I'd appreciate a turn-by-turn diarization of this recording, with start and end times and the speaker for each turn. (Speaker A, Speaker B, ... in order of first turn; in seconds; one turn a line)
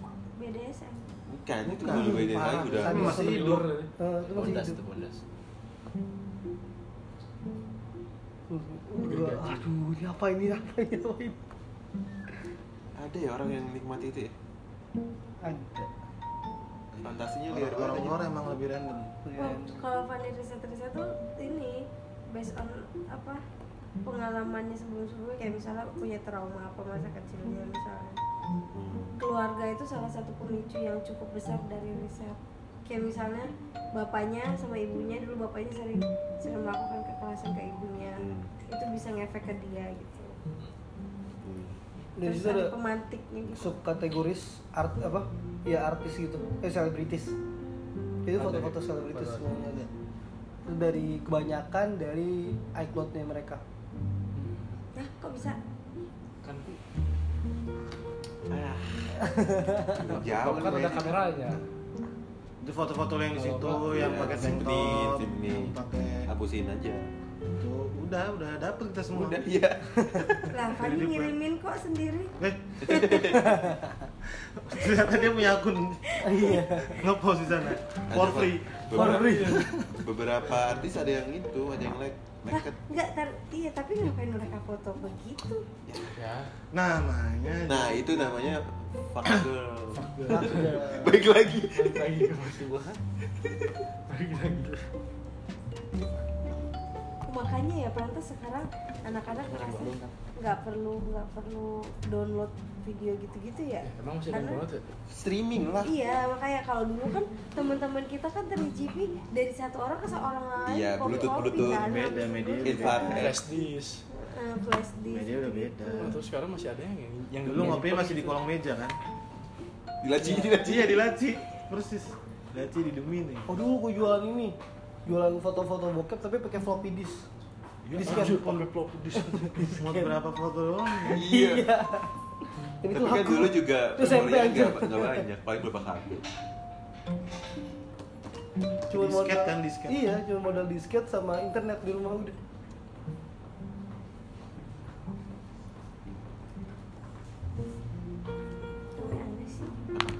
Speaker A: 0.3-1.1
Speaker B: 1.3-3.4
Speaker C: 1.8-3.7
Speaker D: 1.8-4.8
Speaker E: 2.9-3.9
Speaker F: 4.2-5.2
Speaker D: 8.5-11.4
Speaker E: 9.0-9.7
Speaker B: 13.0-14.3
Speaker D: 15.4-15.9
Speaker C: 16.9-19.1
Speaker B: 17.0-18.2
Speaker D: 19.2-19.9
Speaker A: 19.4-23.4
Speaker A: 24.0-28.2
Speaker B: 28.7-29.2
Speaker A: 29.2-40.4
Speaker B: 38.2-38.5
Speaker B: 41.4-41.8
Speaker D: 42.2-42.8
Speaker A: 42.2-43.8
Speaker D: 43.5-47.3
Speaker D: 48.2-49.9
Speaker E: 48.4-49.7
Speaker D: 50.6-53.6
Speaker E: 54.3-54.8
Speaker A: 54.9-55.6
Speaker B: 58.5-59.1
Speaker D: 59.2-60.2
Speaker B: 59.9-61.2
Speaker E: 60.0-61.6
Speaker C: 62.6-66.3
Speaker E: 63.3-64.6
Speaker B: 63.7-67.1
Speaker C: 67.5-69.5
Speaker B: 69.1-70.5
Speaker A: 70.5-72.3
Speaker C: 70.7-71.3
Speaker C: 72.4-73.2
Speaker B: 72.8-73.4
Speaker D: 73.1-74.1
Speaker C: 74.3-76.2
Speaker A: 76.1-76.7
Speaker D: 76.2-77.0
Speaker C: 76.9-80.0
Speaker B: 78.1-82.8
Speaker D: 78.9-79.6
Speaker E: 78.9-79.7
Speaker E: 80.5-80.8
Speaker A: 82.5-85.7
Speaker B: 85.9-86.2
Speaker E: 86.1-86.5
Speaker C: 86.7-88.3
Speaker B: 87.7-92.1
Speaker E: 89.9-90.8
Speaker D: 90.3-91.2
Speaker E: 91.7-92.9
Speaker F: 92.6-93.0
Speaker E: 94.1-94.8
Speaker A: 97.3-104.6
Speaker F: 99.5-100.1
Speaker E: 103.8-104.8
Speaker B: 105.1-105.9
Speaker A: 105.8-113.2
Speaker B: 110.7-112.0
Speaker E: 111.1-111.4
Speaker C: 111.5-113.3
Speaker B: 112.6-113.4
Speaker E: 113.0-114.0
Speaker A: 114.1-116.1
Speaker C: 115.1-116.2
Speaker E: 116.0-118.4
Speaker C: 117.5-119.0
Speaker B: 120.0-121.1
Speaker D: 120.2-120.5
Speaker C: 120.4-123.5
Speaker D: 123.5-127.3
Speaker C: 127.9-128.7
Speaker D: 127.9-128.4
Speaker E: 128.0-129.6
Speaker D: 129.2-130.1
Speaker C: 129.8-131.2
Speaker D: 130.9-132.1
Speaker B: 131.1-131.7
Speaker D: 132.8-135.2
Speaker B: 132.9-136.2
Speaker C: 138.9-140.0
Speaker D: 138.9-142.3
Speaker A: 149.0-149.7